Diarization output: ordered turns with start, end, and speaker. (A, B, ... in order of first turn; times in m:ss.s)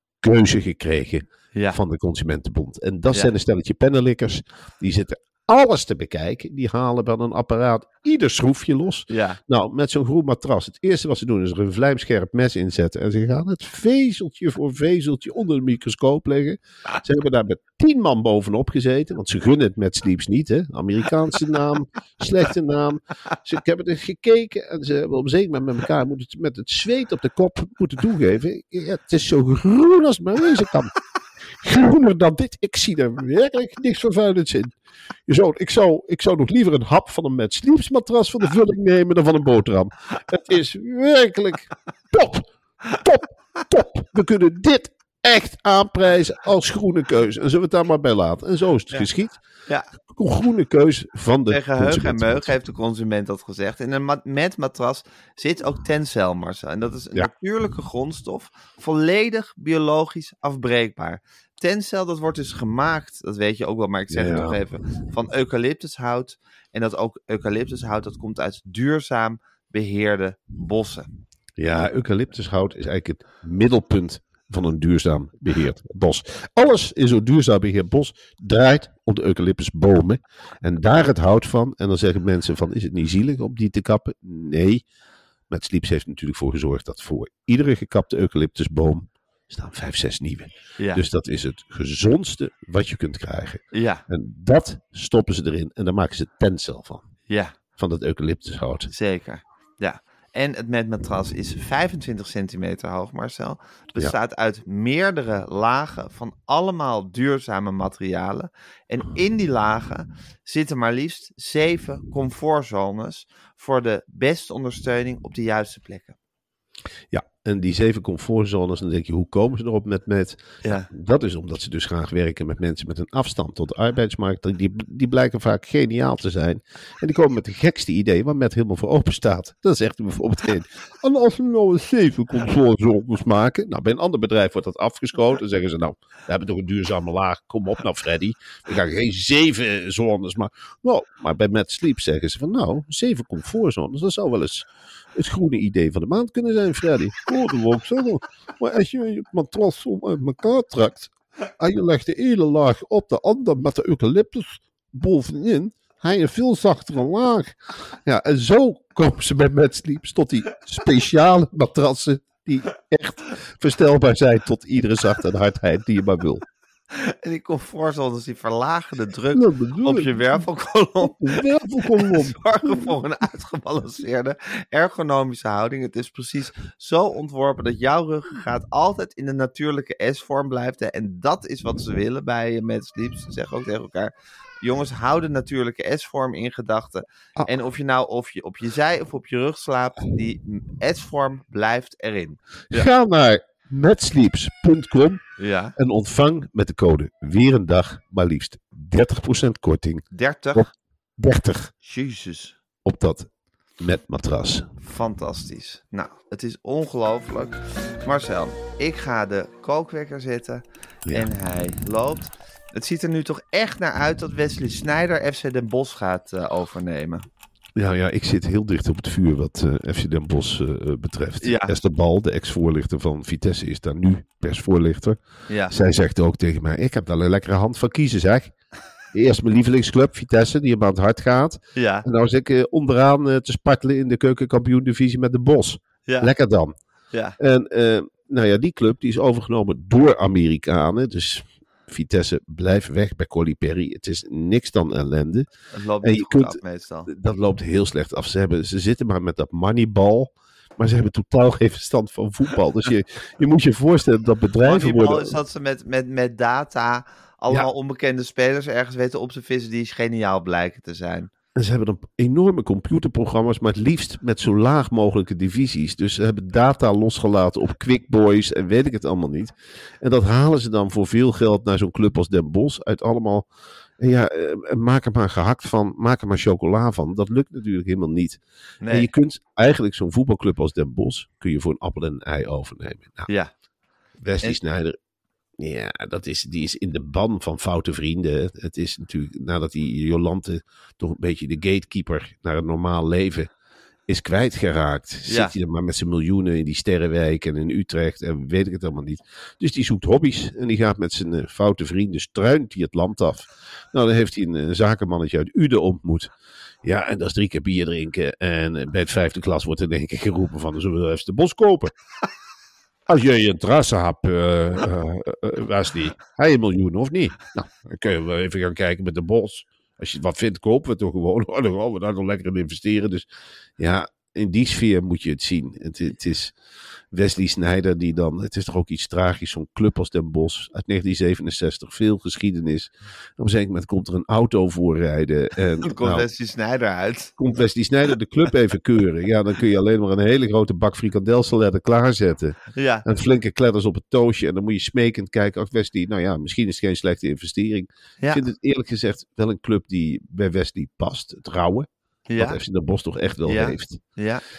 0:00.2-0:30.9 A
0:01.5-0:01.8 B
0:09.1-0:09.4 B
0:31.6-0:34.8 A
0:35.3-0:49.4 A
0:50.1-0:52.5 A
0:51.5-1:11.1 B
1:04.1-1:04.6 A
1:11.6-1:24.8 A
1:25.5-1:37.0 A
1:30.8-1:31.0 B
1:33.7-1:34.0 B
1:37.3-1:37.5 B
1:37.8-1:38.9 A
1:38.9-1:56.2 B
1:57.1-2:46.4 A
2:46.9-3:12.9 B
2:49.3-2:50.2 A
2:51.0-2:52.9 A
3:12.7-3:15.2 A
3:15.4-3:15.8 B
3:15.8-3:21.7 A
3:20.1-3:20.7 B
3:21.8-3:22.6 B
3:22.8-3:24.7 A
3:24.8-3:37.2 B
3:37.8-3:45.2 A
3:41.4-3:41.7 B
3:45.5-3:45.8 B
3:45.7-3:48.5 A
3:49.1-3:56.7 A
3:51.8-3:52.0 B
3:57.1-3:57.4 B
3:57.4-4:05.5 A
4:05.7-4:07.1 B
4:06.0-4:15.4 A
4:14.6-4:21.3 B
4:21.6-4:33.5 A
4:34.0-4:43.3 A
4:38.8-4:39.1 B
4:44.2-4:45.0 A
4:45.6-4:53.5 A
4:54.1-5:06.3 A
4:55.3-4:55.5 B
5:06.8-5:11.9 A
5:13.1-5:26.6 A
5:27.1-5:36.3 A
5:35.8-5:37.4 B
5:37.4-5:54.0 A
5:42.8-5:43.0 B
5:52.3-5:52.6 B
5:53.5-5:54.4 B